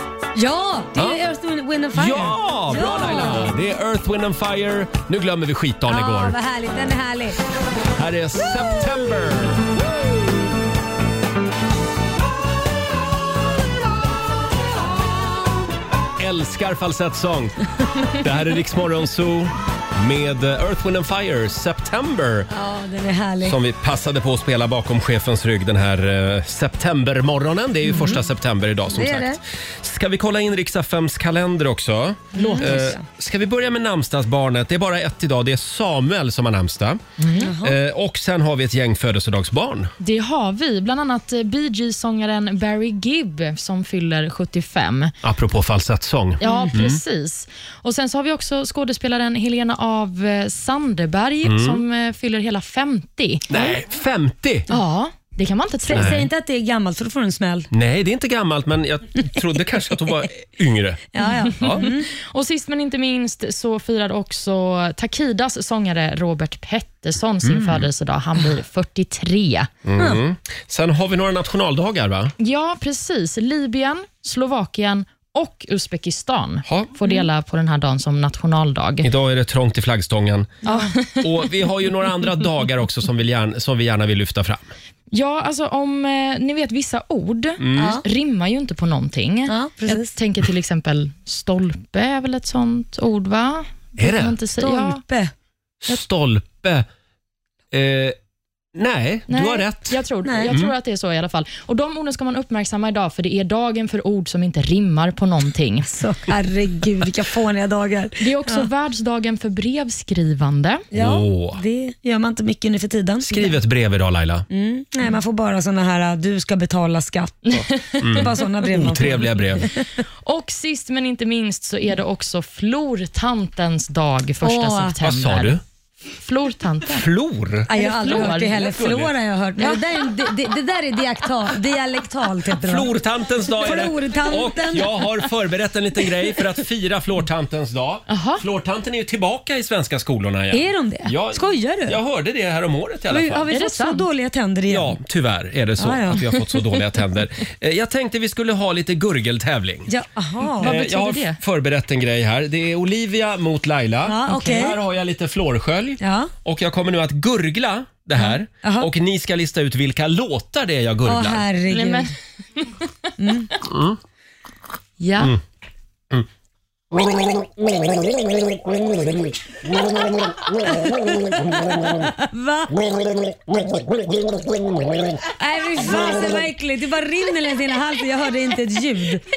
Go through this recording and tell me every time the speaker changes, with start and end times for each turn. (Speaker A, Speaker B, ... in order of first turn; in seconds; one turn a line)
Speaker A: 0.3-3.5
Speaker B: 1.0-1.2
Speaker B: 1.9-6.4
Speaker A: 5.9-7.4
Speaker B: 7.9-9.7
Speaker B: 16.2-22.5
Speaker A: 22.5-23.6
Speaker B: 23.4-37.0
Speaker A: 28.9-29.4
Speaker A: 32.3-33.0
Speaker C: 32.4-32.9
Speaker C: 37.2-37.5
Speaker A: 37.4-37.8
Speaker B: 37.6-39.9
Speaker C: 40.0-45.1
Speaker B: 45.2-47.0
Speaker C: 46.4-53.6
Speaker A: 46.4-46.7
Speaker B: 51.4-51.8
Speaker B: 53.5-54.6
Speaker C: 54.7-56.2
Speaker A: 55.9-57.7
Speaker B: 55.9-56.3
Speaker B: 57.7-61.0
Speaker A: 61.1-62.1
Speaker B: 61.6-61.9
Speaker C: 61.6-69.7
Speaker B: 67.4-67.9
Speaker B: 69.8-72.3
Speaker C: 72.4-79.1
Speaker B: 76.7-77.0
Speaker B: 79.0-80.5
Speaker A: 80.6-80.9
Speaker C: 80.6-81.3
Speaker B: 81.2-84.7
Speaker C: 85.1-95.0
Speaker B: 87.6-88.0
Speaker A: 87.8-88.0
Speaker A: 89.5-90.1
Speaker B: 94.0-94.4
Speaker A: 94.6-95.3
Speaker B: 95.8-96.9
Speaker B: 97.7-98.2
Speaker B: 98.8-100.7
Speaker C: 99.3-105.9
Speaker A: 100.2-100.5
Speaker A: 105.9-108.7
Speaker C: 108.2-110.8
Speaker A: 110.9-113.5
Speaker B: 110.9-111.6
Speaker B: 113.2-114.5
Speaker A: 114.5-119.3
Speaker C: 117.5-118.0
Speaker B: 118.0-119.7
Speaker C: 120.2-125.6
Speaker A: 124.4-124.9
Speaker B: 125.0-125.6
Speaker C: 126.2-127.1
Speaker B: 126.9-129.1
Speaker A: 127.7-132.9
Speaker C: 127.7-128.6
Speaker B: 132.6-143.5
Speaker A: 133.5-135.0
Speaker C: 138.1-138.4
Speaker A: 140.5-142.0
Speaker A: 143.1-145.0
Speaker C: 143.5-144.1
Speaker B: 144.7-149.9
Speaker A: 145.8-146.2
Speaker A: 149.9-150.7
Speaker C: 150.6-151.4
Speaker B: 150.6-161.4
Speaker A: 154.1-154.8
Speaker A: 156.0-156.3
Speaker A: 158.2-158.9
Speaker A: 161.1-162.1
Speaker C: 161.7-162.7
Speaker A: 163.2-163.5
Speaker B: 163.6-164.0
Speaker C: 165.0-165.3
Speaker A: 171.9-172.8
Speaker A: 175.4-179.2